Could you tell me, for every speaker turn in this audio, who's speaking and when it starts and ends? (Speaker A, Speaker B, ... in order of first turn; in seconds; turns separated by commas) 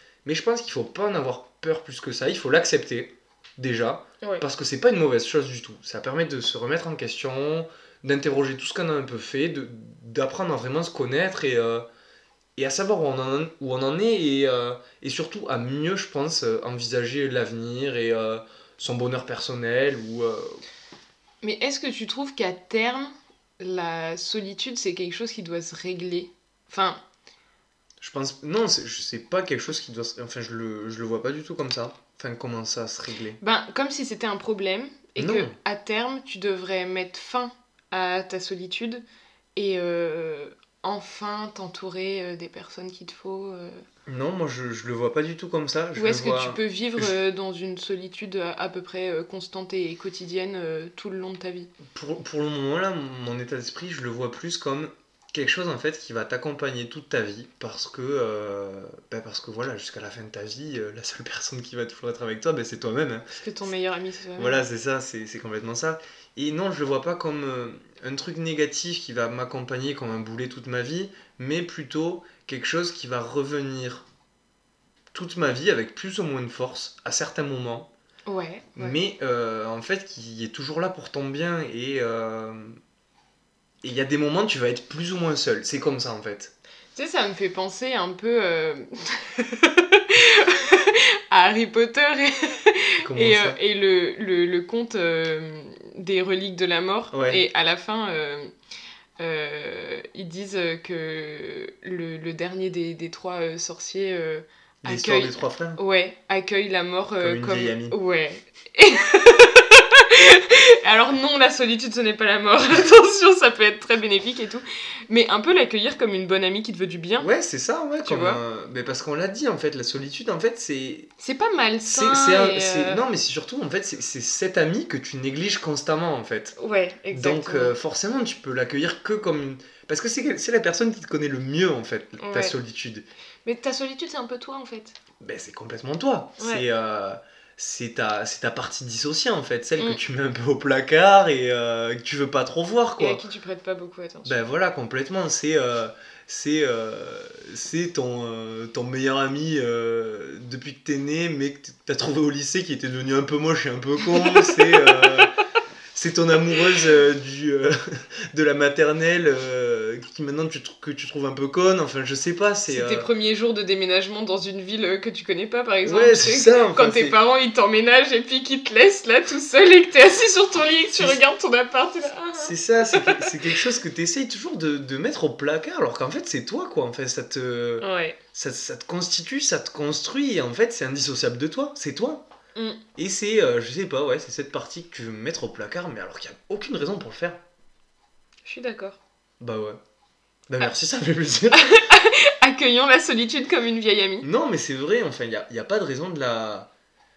Speaker A: 0.2-11.9, Speaker A: 12.6-20.6, Speaker B: 21.4-27.0, Speaker A: 28.0-33.4, Speaker B: 33.4-39.0, Speaker A: 35.2-35.5, Speaker B: 39.5-43.8, Speaker A: 44.0-47.1, Speaker B: 46.0-51.7, Speaker A: 51.9-63.3, Speaker B: 63.4-64.6, Speaker A: 64.4-74.1, Speaker A: 75.1-77.9, Speaker B: 78.2-79.0, Speaker A: 78.8-82.8, Speaker A: 83.8-86.5, Speaker B: 86.9-98.5, Speaker A: 93.0-93.6, Speaker A: 97.1-97.4, Speaker B: 99.2-117.3, Speaker A: 104.8-105.8, Speaker A: 107.2-108.0, Speaker A: 117.2-121.1, Speaker B: 118.0-118.4, Speaker B: 121.2-123.0, Speaker A: 121.8-126.5, Speaker B: 126.5-127.8, Speaker A: 127.1-133.1, Speaker B: 132.2-132.6, Speaker B: 133.4-135.0, Speaker A: 135.2-143.2, Speaker B: 136.4-136.7, Speaker B: 143.0-144.5, Speaker A: 144.2-155.3, Speaker B: 154.1-155.1, Speaker A: 155.9-163.1, Speaker B: 162.7-173.6, Speaker A: 165.8-167.2, Speaker A: 170.9-171.2, Speaker A: 172.4-182.3, Speaker B: 177.8-178.2, Speaker B: 182.5-182.8, Speaker A: 183.0-187.4, Speaker B: 188.4-189.0, Speaker A: 189.4-189.8, Speaker A: 190.5-191.8, Speaker B: 191.5-194.3, Speaker A: 194.2-196.7